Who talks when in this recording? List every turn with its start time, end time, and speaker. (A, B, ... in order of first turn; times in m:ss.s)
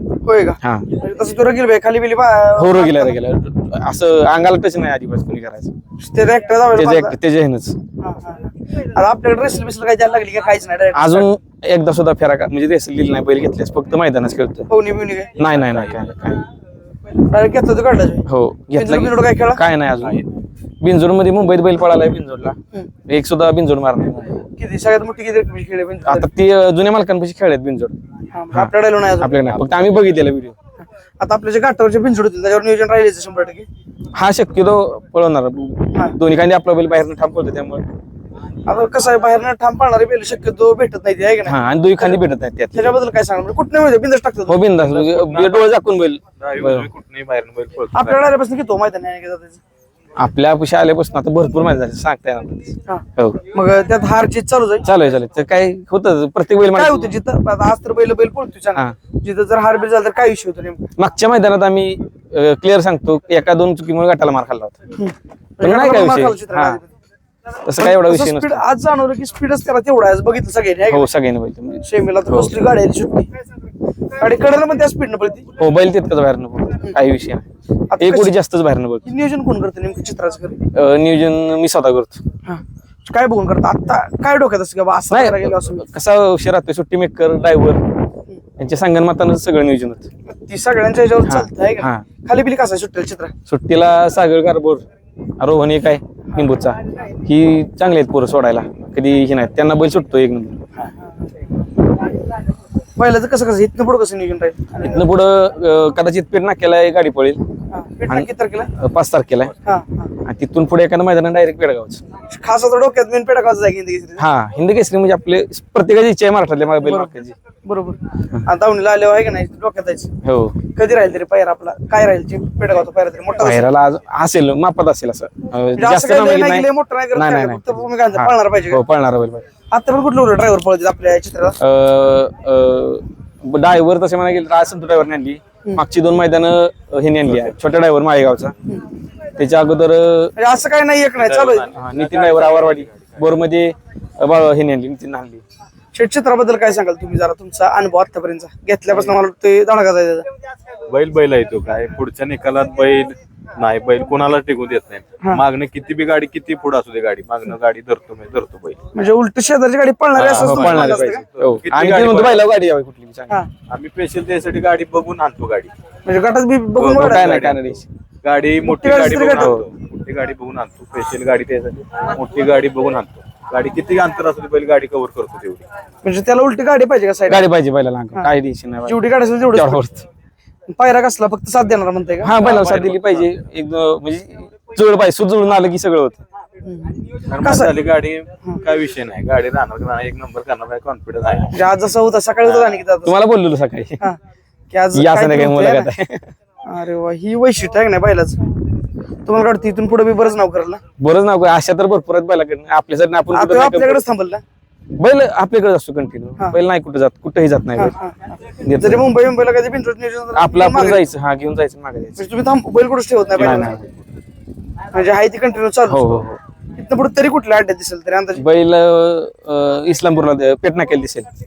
0:00.2-0:03.2 A
0:00.6-0:00.9 B
0:02.6-0:05.7 B
0:06.0-0:07.2 A
0:06.7-0:07.8 B
0:08.0-0:11.3 A
0:10.9-0:14.7 B
0:14.7-0:15.3 A
0:15.4-0:16.4 B
0:15.4-0:15.9 C
0:17.2-0:19.6 A
0:18.2-0:20.2 B
0:20.8-0:24.4 B
0:24.6-0:26.3 A
0:26.0-0:27.9 B
0:28.3-0:29.6 A
0:28.5-0:30.5 B
0:31.2-0:33.7 A
0:34.1-0:37.8 B
0:38.6-0:42.2 A
0:41.4-0:42.9 B
0:42.7-0:44.6 A
0:44.5-0:46.9 B
0:44.8-0:45.7 C
0:46.4-0:48.2 C
0:47.9-0:49.6 A
0:50.2-0:53.4 B
0:52.8-0:54.9 A
0:54.8-0:57.2 B
0:56.7-1:00.9 A
1:01.0-1:04.8 B
1:05.0-1:06.9 A
1:05.6-1:06.8 B
1:07.6-1:08.6 B
1:07.7-1:11.1 A
1:10.9-1:12.6 B
1:11.8-1:13.3 A
1:14.2-1:15.5 A
1:15.6-1:17.4 B
1:17.9-1:18.3 A
1:18.0-1:19.0 B
1:19.0-1:20.6 A
1:20.7-1:22.2 B
1:22.4-1:25.8 A
1:25.1-1:27.8 B
1:28.6-1:30.1 B
1:30.3-1:33.3 A
1:31.2-1:32.0 B
1:33.5-1:34.8 B
1:35.4-1:40.6 B
1:40.8-1:41.2 A
1:43.0-1:45.1 A
1:44.8-1:47.4 B
1:47.7-1:48.7 A
1:48.1-1:49.5 B
1:49.6-1:50.1 A
1:50.2-1:52.0 B
1:52.3-1:54.2 A
1:54.2-1:57.4 B
1:56.8-2:00.1 A
2:00.2-2:00.6 B
2:00.7-2:03.7 A
2:03.4-2:09.4 B
2:05.8-2:08.8 A
2:09.7-2:11.6 A
2:11.6-2:18.5 B
2:19.4-2:20.3 B
2:20.4-2:21.7 A
2:21.2-2:23.2 C
2:21.7-2:25.4 B
2:25.9-2:30.2 A
2:30.9-2:38.8 C
2:38.9-2:41.2 A
2:40.2-2:42.4 C
2:40.3-2:43.4 B
2:43.7-2:45.7 C
2:46.0-2:47.3 A
2:46.8-2:47.8 B
2:46.8-2:55.6 C
2:48.6-2:49.6 A
2:49.3-2:49.7 B
2:56.0-2:57.5 A
2:57.3-2:59.0 B
2:58.8-2:59.8 A
2:59.5-3:00.0 B
3:00.7-3:02.4 A
3:02.2-3:06.2 B
3:02.4-3:03.2 C
3:06.6-3:07.7 A
3:07.3-3:11.6 C
3:11.5-3:13.1 A
3:13.0-3:14.0 B
3:14.7-3:15.9 A
3:14.9-3:16.3 B
3:16.6-3:18.4 A
3:19.2-3:20.8 A
3:21.0-3:24.0 B
3:23.3-3:24.4 A
3:25.0-3:27.9 B
3:27.8-3:31.1 A
3:28.6-3:29.0 B
3:30.3-3:32.2 B
3:32.2-3:33.7 A
3:33.4-3:33.8 B
3:34.9-3:36.2 A
3:35.9-3:36.4 B
3:36.7-3:38.4 A
3:38.4-3:41.3 B